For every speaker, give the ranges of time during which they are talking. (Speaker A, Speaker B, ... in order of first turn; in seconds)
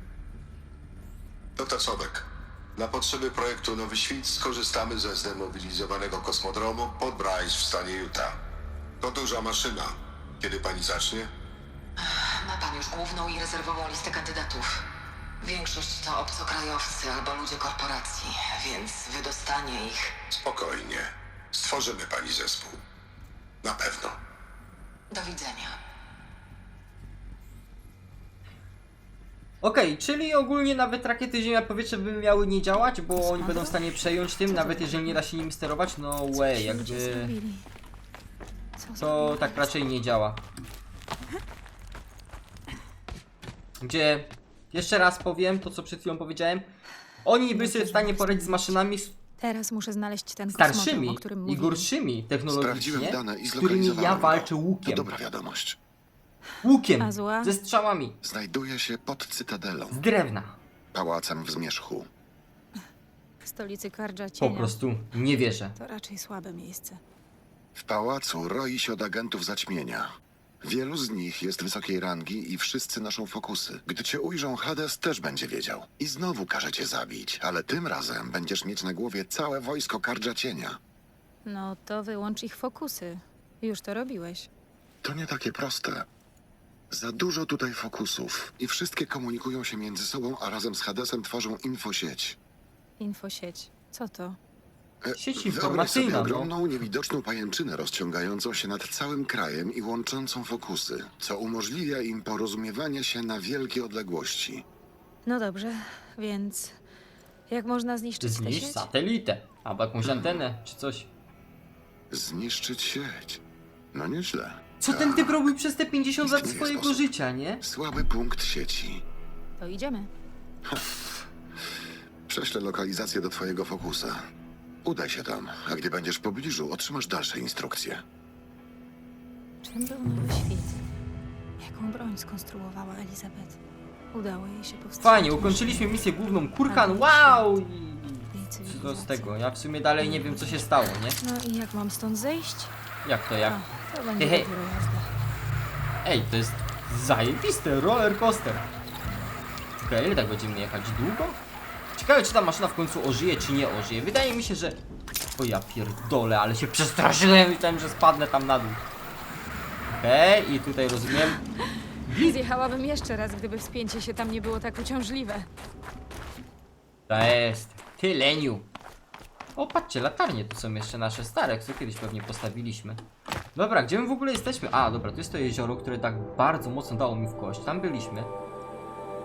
Speaker A: 1.6-8.4, 9.0-11.3, 20.3-22.8, 23.6-24.2
Speaker B: 12.0-14.8, 15.4-20.1, 25.1-25.8
Speaker C: 29.6-37.3, 39.0-40.4, 43.8-46.7, 47.2-49.1, 50.5-55.1, 56.6-58.2, 59.9-60.6, 64.4-65.8, 95.2-96.5, 108.2-111.1, 114.8-117.6, 135.0-141.2, 143.0-143.6, 144.2-144.5, 146.0-148.7, 149.8-151.4, 152.0-154.8, 155.4-158.8, 159.9-161.4, 162.1-162.3, 167.1-168.7, 169.6-173.0, 173.6-178.3
Speaker D: 33.1-35.2, 36.3-37.6, 38.8-39.8, 47.5-48.8, 49.4-51.9, 57.0-57.5, 63.4-64.8, 65.8-67.0, 81.5-84.5, 93.0-94.4, 105.2-106.8, 107.5-108.9, 119.6-120.1, 129.6-130.8, 131.6-133.6, 134.1-136.0, 136.7-137.5, 138.3-139.4, 140.0-142.7, 143.4-145.1, 162.1-165.5
Speaker E: 52.5-55.8, 58.2-60.0, 60.9-62.1, 67.8-70.1, 70.6-80.8, 85.0-86.1, 86.9-92.4, 95.0-104.7, 112.1-113.4, 113.9-115.5, 116.2-117.1, 117.6-119.0, 120.7-121.2, 122.3-124.2, 124.8-128.0